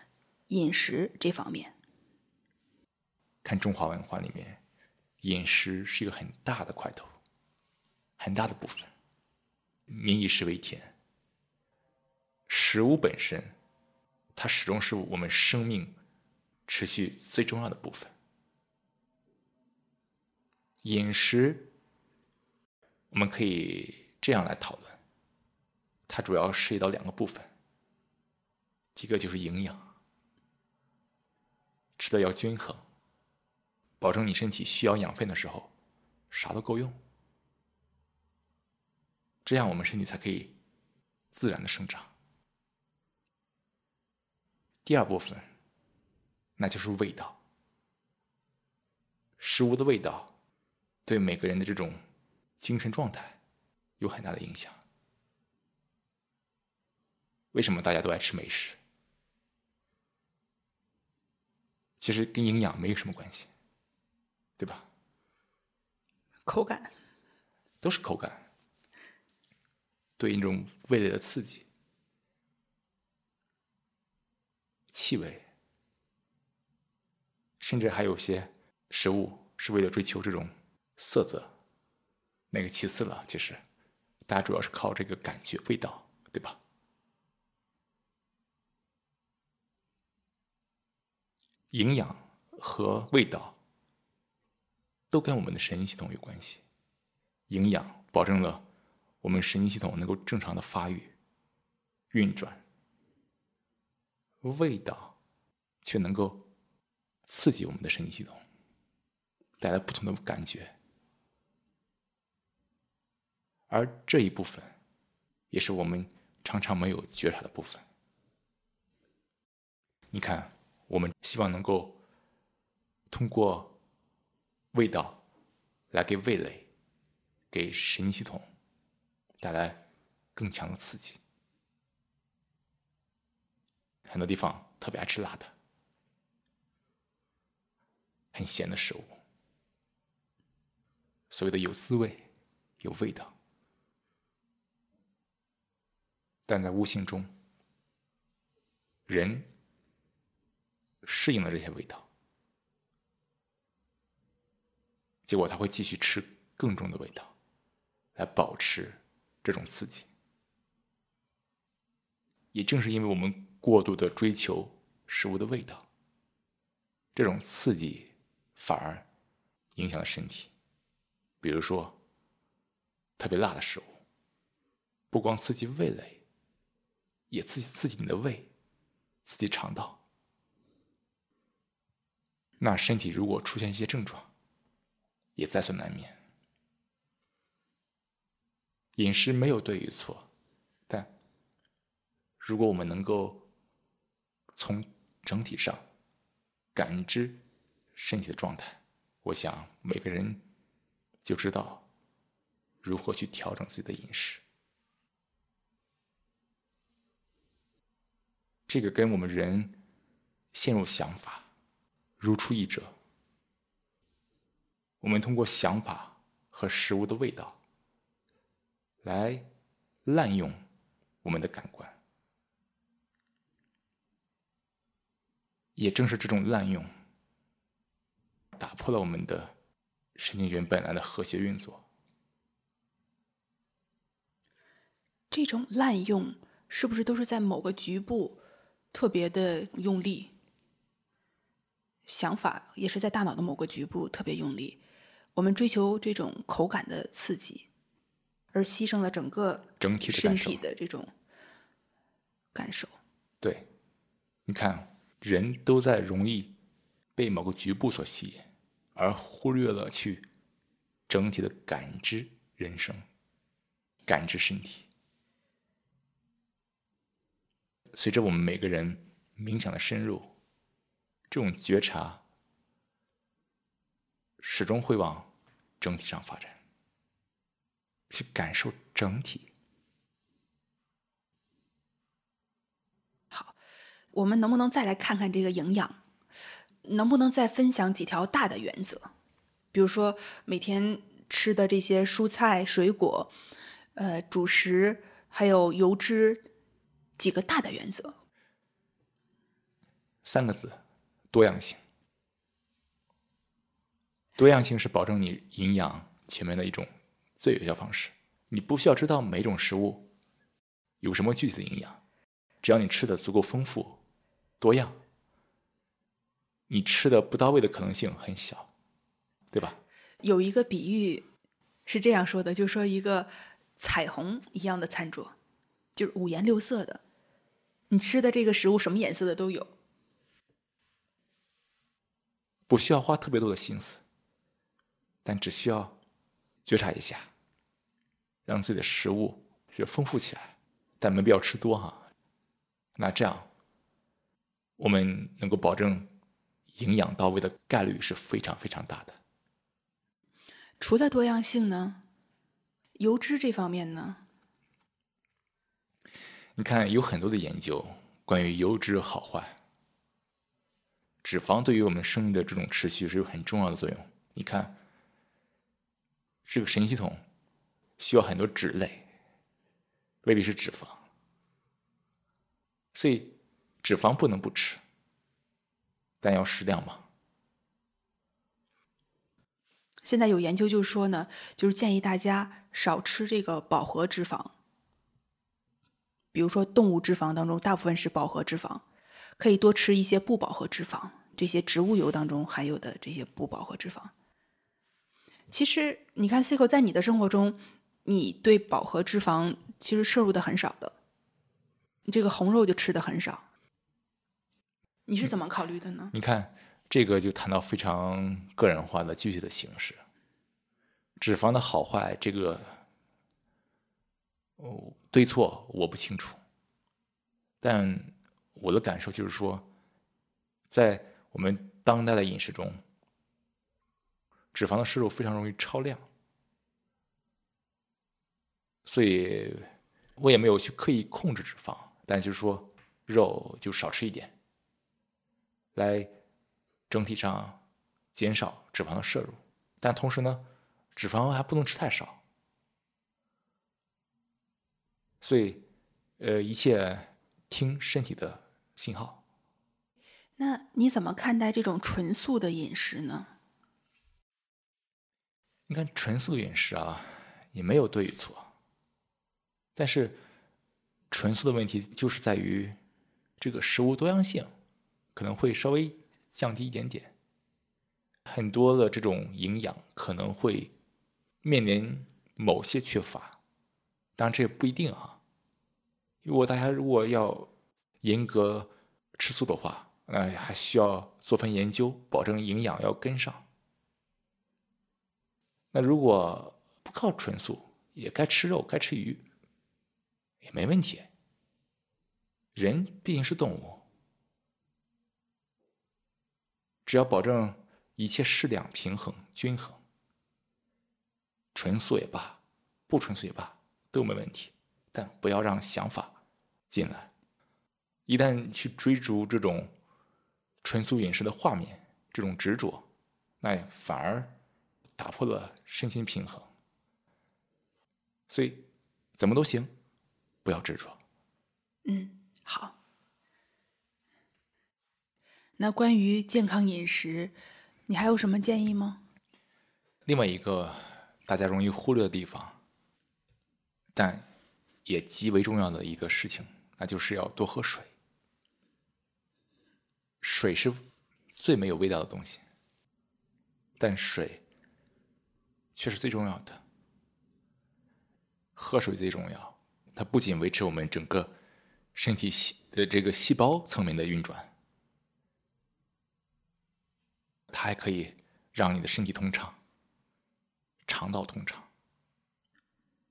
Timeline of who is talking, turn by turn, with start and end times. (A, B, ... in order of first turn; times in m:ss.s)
0:00.5-0:01.7 A
0:03.4-0:04.6 B
0:05.2-0:07.1 B
0:08.2-0:08.9 B
0:09.9-0:10.9 B
0:12.5-0:13.5 B
0:14.3-0:16.0 B
0:16.7-0:18.1 B
0:20.8-0:21.7 B
0:23.1-0:25.0 B
0:26.1-0:27.5 B
0:29.0-0:29.9 B
0:32.0-0:32.8 B
0:34.0-0:35.7 B
0:36.3-0:37.0 B
0:39.4-0:40.6 B
0:41.3-0:42.1 B
0:44.8-0:45.5 B
0:46.6-0:47.4 B
0:49.4-0:50.3 B
0:51.0-0:52.0 B
0:52.6-0:53.4 B
0:54.0-0:54.8 B
0:57.5-0:58.8 B
1:02.0-1:03.5 B
1:04.6-1:04.9 B
1:06.4-1:06.9 A
1:07.8-1:08.4 B
1:10.2-1:11.6 B
1:14.9-1:15.5 B
1:17.6-1:21.5 B
1:22.5-1:23.6 B
1:24.3-1:26.6 B
1:31.7-1:33.6 B
1:35.1-1:36.6 B
1:37.5-1:38.6 B
1:39.2-1:41.1 B
1:42.1-1:42.6 B
1:44.4-1:45.2 B
1:45.8-1:46.5 B
1:47.3-1:48.4 B
1:49.6-1:50.7 B
1:53.7-1:54.7 B
1:55.5-1:57.8 B
2:00.1-2:02.0 B
2:03.1-2:03.8 B
2:04.7-2:05.2 B
2:05.9-2:06.7 B
2:07.5-2:08.5 B
2:09.4-2:09.8 B
2:10.3-2:11.2 B
2:14.0-2:15.5 B
2:18.3-2:19.2 B
2:21.3-2:22.3 B
2:22.8-2:23.3 B
2:26.4-2:27.3 B
2:29.1-2:29.5 B
2:31.0-2:32.1 B
2:35.2-2:37.3 B
2:38.1-2:40.1 B
2:42.5-2:45.8 B
2:47.1-2:49.1 B
2:49.8-2:50.5 B
2:51.4-2:52.0 B
2:53.2-2:54.0 B
2:55.1-2:56.2 B
2:57.3-2:58.5 B
2:59.2-3:00.0 B
3:02.6-3:04.3 B
3:05.4-3:06.2 B
3:09.0-3:10.3 B
3:12.4-3:13.5 B
3:14.5-3:15.8 B
3:16.7-3:17.4 B
3:17.9-3:20.4 B
3:21.2-3:21.8 B
3:22.8-3:24.4 B
3:28.7-3:29.8 B
3:30.5-3:31.5 B
3:32.2-3:32.9 B
3:35.0-3:37.6 B
3:39.0-3:39.5 B
3:40.0-3:40.6 B
3:41.2-3:42.0 B
3:45.8-3:46.9 B
3:48.6-3:49.5 B
3:50.1-3:51.8 B
3:55.3-3:58.4 A
3:58.9-4:00.3 A
4:02.0-4:04.8 A
4:05.3-4:07.7 A
4:08.5-4:11.1 A
4:09.8-4:10.6 B
4:12.5-4:13.0 A
4:13.4-4:13.7 B
4:14.4-4:16.5 B
4:17.1-4:20.2 B
4:21.1-4:23.0 B
4:24.0-4:24.9 B
4:27.9-4:30.3 B
4:31.3-4:32.2 B
4:34.4-4:36.6 B
4:38.1-4:39.5 B
4:44.1-4:46.0 A
4:46.8-4:49.1 A
4:49.7-4:53.3 A
4:53.9-4:56.5 A
4:57.2-4:58.2 A
5:00.2-5:00.8 B
5:01.3-5:01.8 B
5:04.4-5:10.1 B
5:11.0-5:12.0 B
5:12.6-5:14.0 B
5:14.6-5:15.0 B
5:16.7-5:18.7 B
5:19.5-5:19.8 B
5:20.2-5:21.2 A
5:21.8-5:25.3 A
5:26.0-5:27.0 A
5:27.9-5:29.7 A
5:32.7-5:34.0 B
5:35.2-5:36.0 B
5:36.6-5:37.3 B
5:38.4-5:42.1 B
5:43.0-5:43.5 B
5:44.8-5:46.1 B
5:46.8-5:49.2 B
5:50.8-5:52.0 A
5:53.0-5:54.2 A
5:56.6-5:59.6 B
6:01.2-6:04.8 B
6:06.4-6:07.2 B
6:08.0-6:09.1 B
6:10.2-6:11.0 B
6:12.9-6:14.8 B
6:16.2-6:17.1 B
6:20.0-6:24.5 A
6:26.3-6:28.8 A
6:29.4-6:34.1 A
6:35.5-6:40.9 A
6:42.0-6:43.4 A
6:45.1-6:46.1 A
6:46.1-6:50.0 B
6:51.2-6:52.8 B
6:54.6-6:56.4 B
6:57.6-6:59.7 B
7:00.7-7:02.8 B
7:04.5-7:06.1 B
7:08.8-7:09.6 B
7:10.2-7:14.3 B
7:15.7-7:16.1 B
7:16.9-7:17.6 B
7:18.1-7:22.2 B
7:25.2-7:25.6 B
7:26.2-7:29.2 B
7:30.4-7:33.3 A
7:35.7-7:38.5 B
7:39.8-7:40.2 B
7:41.1-7:42.8 B
7:43.4-7:44.5 B
7:45.1-7:47.1 B
7:48.3-7:50.7 B
7:51.4-7:53.4 B
7:54.2-7:55.2 B
7:56.2-7:57.5 B
7:58.0-8:03.5 B
8:05.7-8:09.2 B
8:10.4-8:11.1 B
8:12.5-8:13.8 B
8:16.8-8:19.8 B
8:21.5-8:26.2 B
8:26.7-8:27.1 B
8:28.1-8:29.7 B
8:30.6-8:32.8 B
8:33.4-8:34.4 B
8:35.0-8:36.5 B
8:38.3-8:38.6 B
8:39.2-8:39.7 B
8:40.4-8:41.0 B
8:41.8-8:42.8 A
8:45.6-8:47.3 A
8:47.9-8:49.0 A
8:50.0-8:52.6 B
8:53.9-8:54.3 B
8:54.8-8:57.9 B
9:00.2-9:02.4 B
9:03.8-9:04.4 B
9:05.8-9:06.6 B
9:08.6-9:11.3 B
9:11.9-9:14.5 B
9:17.5-9:19.6 B
9:20.8-9:21.7 B